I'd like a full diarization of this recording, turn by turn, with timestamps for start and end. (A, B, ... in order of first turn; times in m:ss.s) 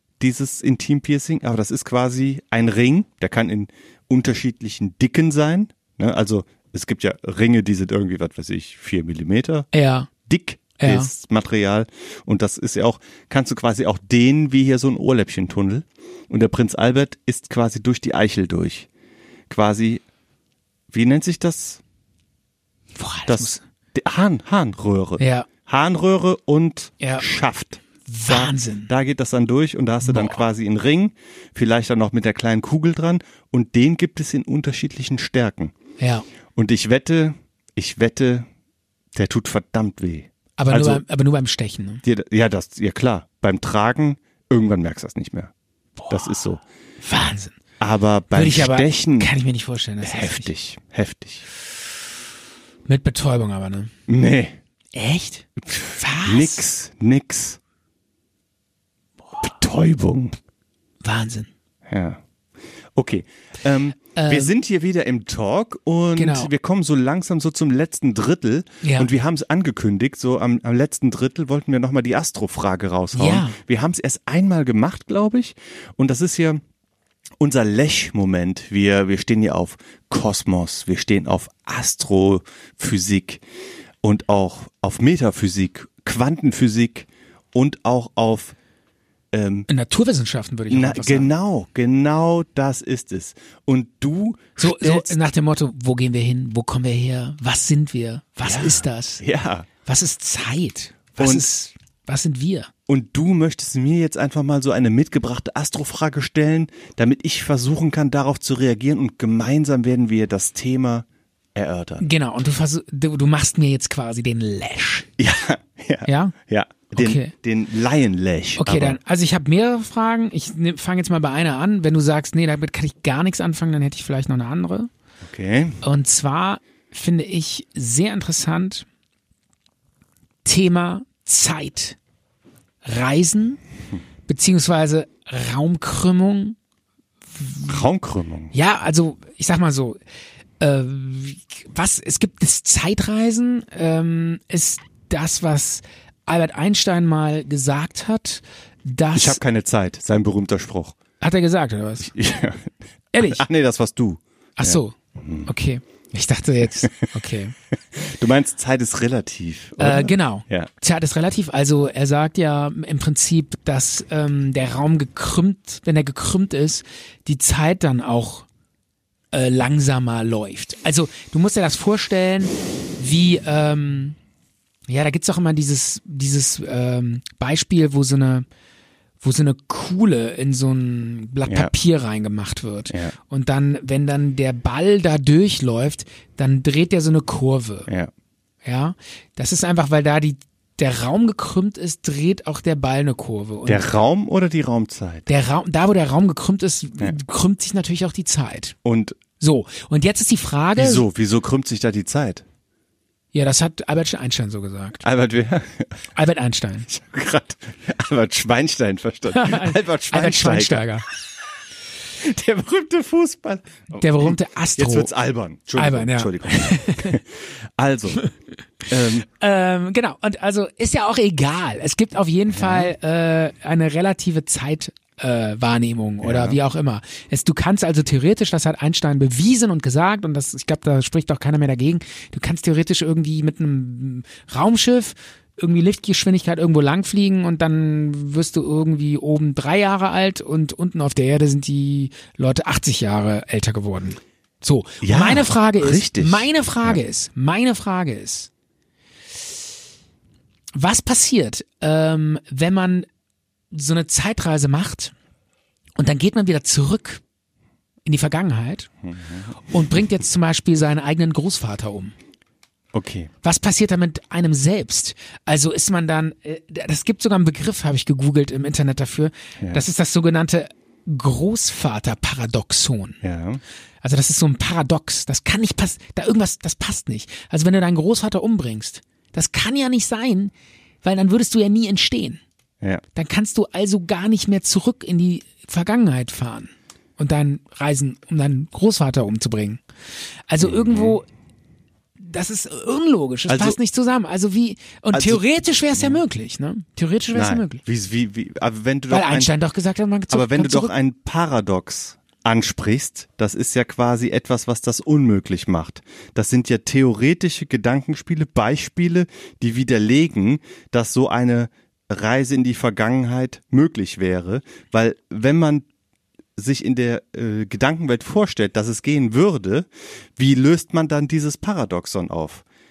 0:00.2-0:09.7 A
0:09.7-0:10.1 B
0:10.2-0:18.9 A
0:10.8-0:11.1 B
0:19.5-0:20.0 A
0:20.9-0:21.8 A
0:23.0-0:23.6 B
0:23.3-0:35.7 A
0:25.2-0:25.5 B
0:27.0-0:27.2 B
0:28.0-0:28.9 B
0:30.0-0:30.4 B
0:36.0-0:36.2 B
0:36.6-0:38.5 A
0:39.1-0:41.0 A
0:40.6-0:42.0 B
0:42.0-0:45.5 A
0:46.0-0:46.3 B
0:46.1-0:46.6 A
0:47.0-0:47.5 B
0:47.8-0:49.3 A
0:48.3-0:50.5 B
0:50.0-0:51.4 A
0:52.9-0:53.9 B
0:54.1-0:54.6 A
0:54.9-0:56.6 B
0:55.6-0:57.6 A
0:59.4-1:00.4 A
1:01.0-1:01.5 B
1:01.9-1:02.2 A
1:02.9-1:16.6 A
1:04.1-1:04.5 B
1:06.2-1:06.5 B
1:08.8-1:09.1 B
1:13.1-1:13.6 B
1:17.4-1:23.4 A
1:24.0-1:28.5 A
1:29.3-1:29.7 A
1:29.7-1:31.3 B
1:30.7-1:35.2 A
1:34.6-1:39.2 B
1:38.4-1:39.7 A
1:39.8-1:42.7 B
1:41.2-1:41.5 A
1:42.9-1:52.1 A
1:52.0-1:55.1 B
1:55.2-1:59.0 A
1:56.0-1:56.3 B
1:56.9-1:57.3 B
1:58.6-2:04.9 B
2:05.2-2:05.8 A
2:05.8-2:08.8 B
2:10.4-2:12.0 B
2:12.8-2:13.6 B
2:14.3-2:16.6 B
2:17.3-2:17.8 B
2:17.7-2:18.5 A
2:18.5-2:20.0 B
2:20.6-2:29.4 B
2:29.1-2:31.0 A
2:31.2-2:32.1 B
2:32.0-2:35.5 A
2:33.1-2:33.4 B
2:34.6-2:37.5 B
2:37.9-2:40.7 A
2:39.8-2:48.4 B
2:49.3-2:54.2 B
2:54.9-2:58.4 B
2:59.2-3:07.9 B
3:01.4-3:01.7 A
3:02.9-3:03.1 A
3:08.6-3:13.9 B
3:13.6-3:15.3 A
3:15.3-3:18.7 B
3:18.8-3:19.2 A
3:19.4-3:21.0 B
3:20.8-3:22.4 A
3:23.3-3:25.0 B
3:25.0-3:25.9 A
3:26.1-3:26.9 B
3:26.9-3:30.9 A
3:29.3-3:31.0 B
3:32.2-3:38.2 A
3:33.9-3:35.1 B
3:35.8-3:37.2 B
3:38.9-3:39.2 A
3:39.2-4:08.5 B
3:42.5-3:42.9 A
3:46.2-3:46.6 A
4:05.0-4:07.0 A
4:10.7-4:13.1 B
4:13.7-4:15.1 B
4:16.0-4:17.2 B
4:18.0-4:18.9 B
4:19.0-4:19.6 A
4:19.7-4:22.1 B
4:22.9-4:23.3 A
4:23.4-4:33.2 B
4:29.6-4:29.8 A
4:33.2-4:33.6 A
4:34.0-4:40.5 B
4:41.0-4:42.4 B
4:43.1-4:49.8 B
4:50.5-4:51.2 B
4:50.6-4:51.2 A
4:52.2-4:57.8 B
4:53.5-4:53.8 A
4:55.1-4:55.4 A
4:57.3-4:59.5 A
4:59.1-5:00.9 B
5:00.3-5:15.8 A
5:16.6-5:22.6 A